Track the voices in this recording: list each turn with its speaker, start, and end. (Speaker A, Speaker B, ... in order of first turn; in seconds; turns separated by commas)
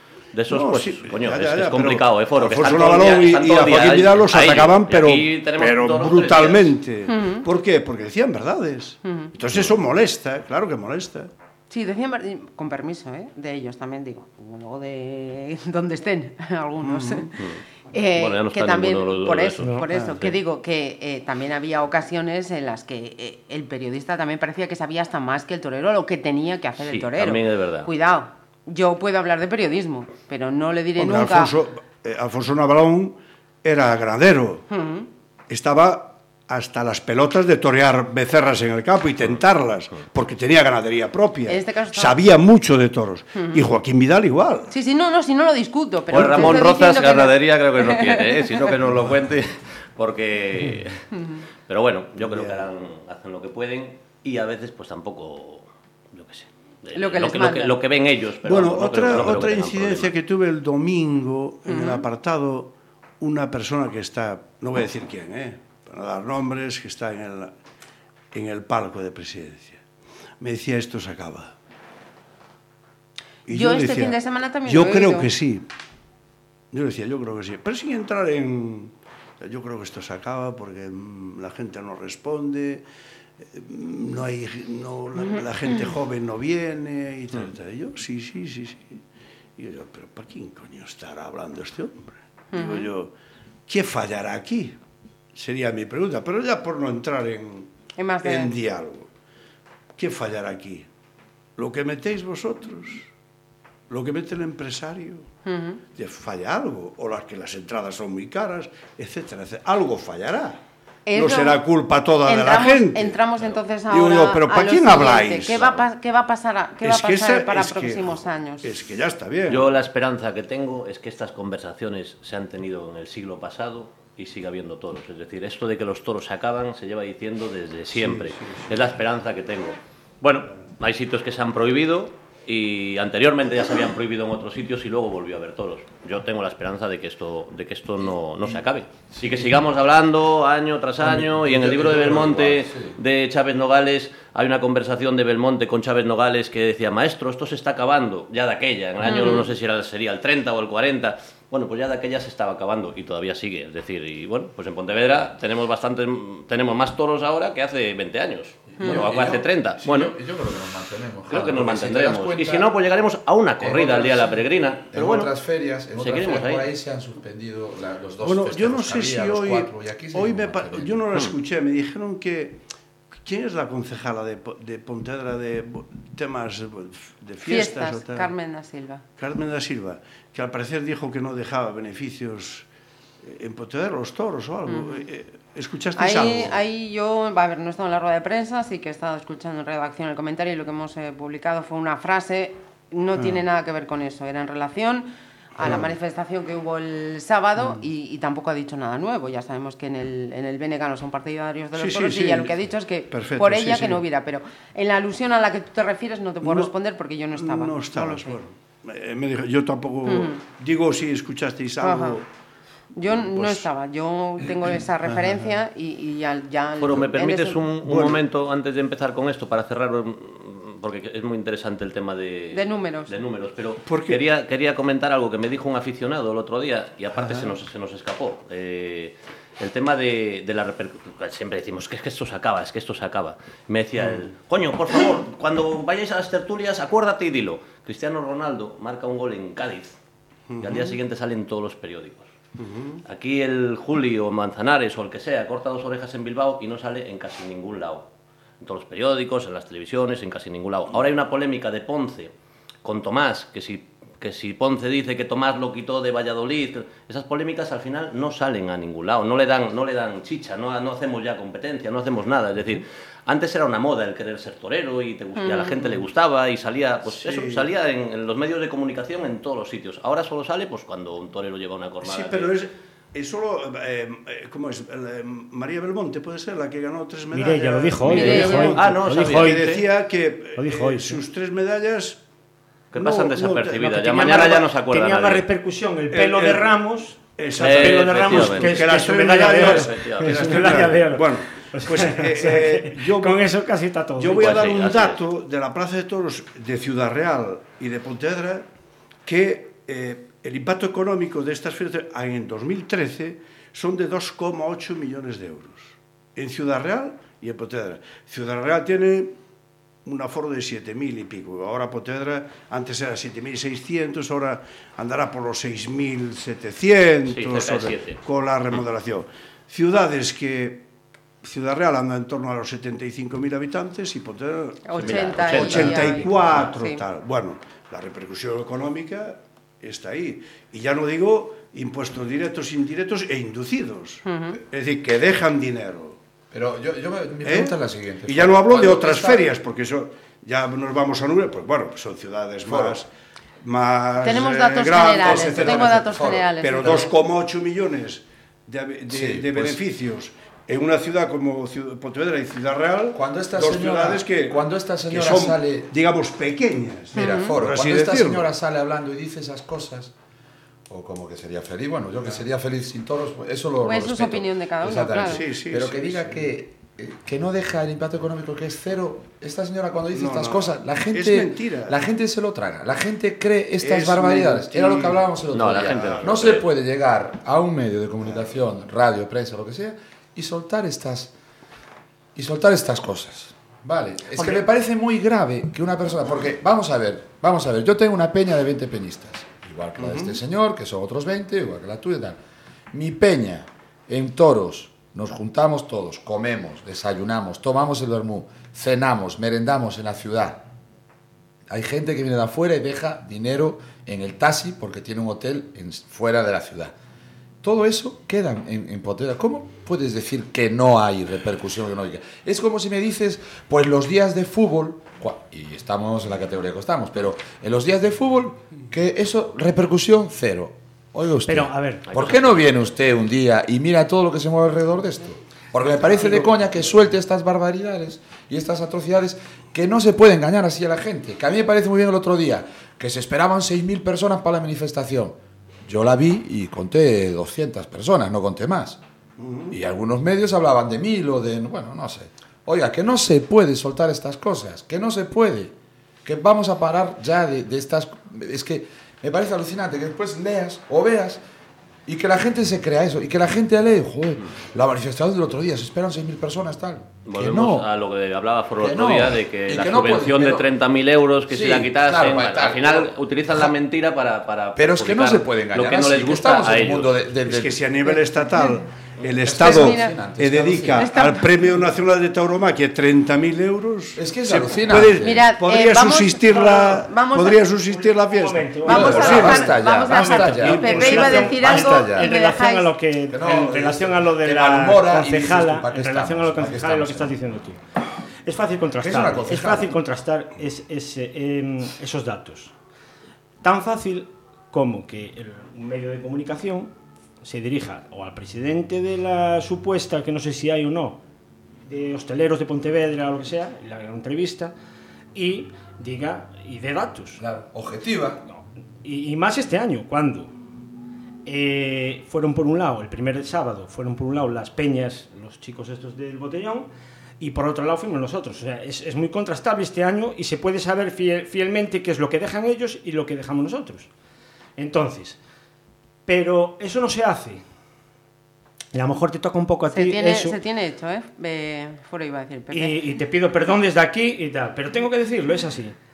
Speaker A: 0.3-6.7, Speaker B: 0.5-11.3, Speaker C: 7.1-7.5, Speaker C: 9.1-9.3, Speaker C: 11.7-31.5, Speaker B: 16.8-17.3, Speaker A: 17.4-17.6, Speaker A: 18.1-20.4, Speaker D: 19.6-19.9, Speaker A: 26.8-27.9, Speaker B: 31.0-34.7, Speaker C: 34.7-35.1, Speaker B: 35.5-44.7, Speaker C: 41.5-42.2, Speaker C: 43.4-43.6, Speaker C: 44.7-48.7, Speaker A: 46.1-51.1, Speaker B: 46.2-46.6, Speaker C: 51.2-51.4, Speaker A: 51.7-60.1, Speaker B: 52.2-52.7, Speaker C: 57.0-57.8, Speaker B: 58.4-67.5, Speaker C: 61.7-62.1, Speaker B: 68.3-69.8, Speaker B: 70.4-71.5, Speaker B: 73.5-75.7, Speaker C: 73.5-75.3, Speaker B: 76.7-82.8, Speaker B: 83.4-89.0, Speaker C: 85.2-85.9, Speaker B: 89.6-93.1, Speaker C: 92.5-92.9, Speaker B: 93.7-94.8, Speaker B: 95.3-97.7, Speaker C: 98.0-98.6, Speaker B: 98.2-99.1, Speaker B: 100.0-100.9, Speaker B: 101.6-103.1, Speaker B: 103.9-105.3, Speaker C: 105.5-105.8, Speaker B: 105.9-110.6, Speaker C: 111.1-111.6, Speaker B: 111.1-113.2, Speaker C: 112.2-118.8, Speaker B: 113.9-115.8, Speaker B: 116.8-119.7, Speaker A: 119.5-160.1, Speaker B: 127.9-128.9, Speaker E: 139.1-139.5, Speaker E: 141.0-143.0, Speaker C: 149.0-149.5, Speaker E: 158.8-162.7, Speaker C: 158.8-159.0, Speaker A: 161.3-165.3, Speaker E: 163.6-164.4, Speaker E: 164.9-170.9, Speaker A: 165.9-166.7, Speaker B: 168.2-172.6, Speaker B: 173.2-178.3, Speaker C: 177.4-179.1, Speaker B: 179.2-182.7, Speaker B: 183.2-186.6, Speaker C: 184.7-185.1, Speaker C: 186.0-208.4, Speaker B: 193.2-193.4, Speaker B: 195.6-195.9, Speaker B: 197.6-197.8, Speaker B: 201.8-204.0, Speaker B: 206.4-206.7, Speaker B: 207.4-212.3, Speaker C: 210.1-210.4, Speaker C: 211.8-212.2, Speaker C: 212.9-217.7, Speaker B: 213.1-213.7, Speaker B: 214.7-215.5, Speaker A: 216.8-240.0, Speaker B: 217.8-218.2, Speaker C: 222.5-223.2, Speaker B: 223.9-224.2, Speaker B: 227.2-227.6, Speaker B: 240.5-241.0, Speaker A: 240.6-242.3, Speaker B: 242.6-243.0, Speaker A: 243.1-248.1, Speaker A: 248.6-252.3, Speaker A: 252.8-272.6, Speaker C: 265.4-266.0, Speaker B: 267.1-267.7, Speaker B: 272.0-282.2, Speaker D: 277.3-279.7, Speaker A: 278.1-279.9, Speaker C: 278.1-278.8, Speaker D: 280.6-281.2, Speaker A: 282.9-285.4, Speaker B: 282.9-283.9, Speaker D: 283.6-294.6, Speaker B: 286.1-286.7, Speaker B: 287.4-293.5, Speaker A: 287.6-288.9, Speaker A: 289.5-290.9, Speaker B: 294.2-298.7, Speaker A: 294.4-295.2, Speaker B: 299.2-309.3, Speaker B: 310.1-320.9, Speaker A: 317.3-318.2, Speaker B: 321.4-336.2, Speaker C: 324.9-327.1, Speaker A: 325.0-326.7, Speaker C: 334.2-334.6, Speaker E: 336.5-339.4, Speaker B: 337.4-343.1, Speaker E: 342.6-343.0, Speaker B: 343.6-358.5, Speaker C: 344.2-347.1, Speaker E: 345.2-347.0, Speaker E: 349.1-349.8, Speaker E: 353.1-355.9, Speaker E: 357.1-360.1, Speaker C: 357.1-357.6, Speaker E: 360.9-381.3, Speaker C: 363.8-365.4, Speaker B: 365.2-366.5, Speaker B: 370.1-372.0, Speaker B: 373.8-376.6, Speaker A: 375.5-376.7, Speaker E: 382.4-392.4, Speaker B: 390.0-390.4, Speaker E: 392.9-400.7, Speaker E: 401.7-406.9, Speaker E: 407.6-439.0, Speaker D: 421.5-422.0, Speaker A: 422.1-422.7, Speaker B: 426.1-426.6, Speaker B: 439.4-439.8, Speaker E: 439.7-445.7, Speaker E: 446.2-451.4, Speaker E: 452.1-457.9, Speaker A: 457.3-467.2, Speaker E: 458.8-460.7, Speaker E: 461.5-463.1, Speaker E: 464.8-467.8, Speaker B: 467.5-479.8, Speaker C: 468.1-468.8, Speaker E: 469.4-471.1, Speaker C: 469.5-470.2, Speaker C: 470.9-471.8, Speaker E: 474.2-475.4, Speaker C: 475.2-477.6, Speaker D: 476.5-477.0, Speaker D: 477.9-487.8, Speaker C: 478.8-482.9, Speaker E: 478.9-482.3, Speaker B: 480.7-481.3, Speaker E: 483.3-487.4, Speaker D: 488.4-492.7, Speaker E: 489.0-489.9, Speaker D: 493.6-501.2, Speaker D: 501.9-504.7, Speaker D: 505.3-507.4, Speaker E: 507.4-508.4, Speaker D: 508.5-510.5, Speaker D: 511.5-516.9, Speaker D: 517.4-524.1, Speaker D: 524.8-525.4, Speaker D: 526.3-527.6, Speaker D: 528.9-530.6, Speaker C: 529.9-533.0, Speaker D: 532.7-536.0